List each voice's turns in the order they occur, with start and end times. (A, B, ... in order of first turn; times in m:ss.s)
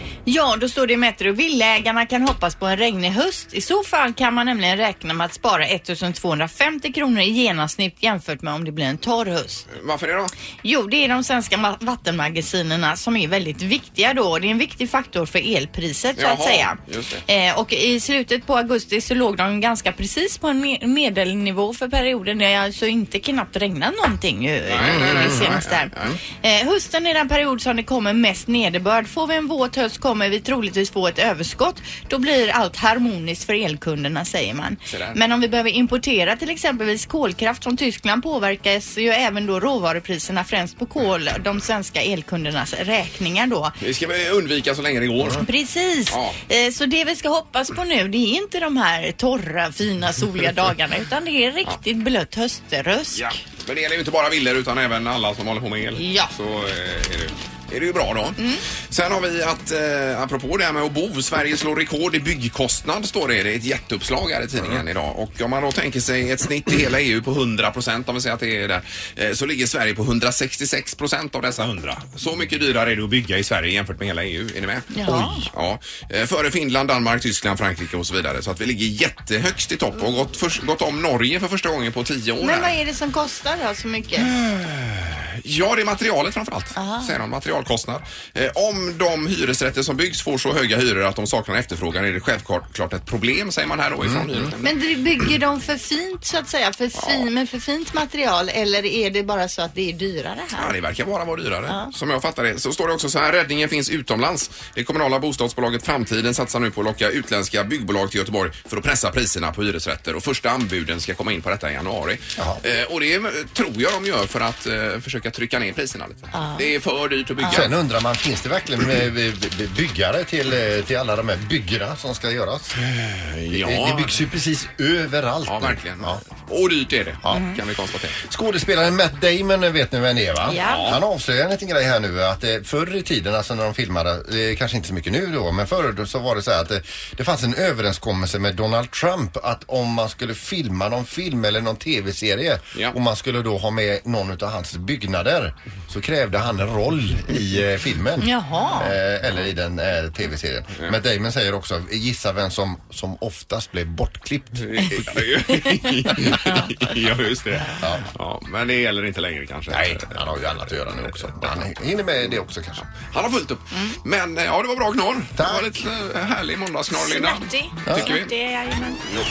0:00.2-0:09.7 A
0:09.7-0:10.3 B
0:10.6-0:43.7 A
0:16.2-0:17.2 B
0:24.6-0:26.2 B
0:24.9-0:25.2 C
0:34.9-0:35.2 B
0:43.8-0:45.5 B
0:45.4-0:53.4 A
0:46.1-0:46.4 B
0:53.1-1:22.7 B
0:56.0-0:56.3 A
0:58.4-0:58.6 A
1:14.9-1:15.4 A
1:22.4-1:24.3 A
1:24.2-1:34.7 B
1:26.8-1:27.1 A
1:34.0-1:34.5 C
1:34.6-1:40.7 A
1:37.0-1:37.3 B
1:40.6-1:57.7 B
1:56.3-1:56.7 A
1:57.4-2:02.8 C
2:02.8-2:04.2 B
2:03.5-2:06.2 C
2:05.5-2:08.2 B
2:08.2-2:35.0 C
2:10.5-2:10.9 A
2:10.6-2:11.0 B
2:28.2-2:28.9 A
2:34.6-2:40.1 B
2:36.3-2:36.7 A
2:37.5-2:37.8 A
2:39.7-2:42.9 C
2:40.8-2:41.7 B
2:43.0-2:48.3 B
2:45.4-2:45.7 C
2:46.9-2:49.0 A
2:47.9-2:48.1 C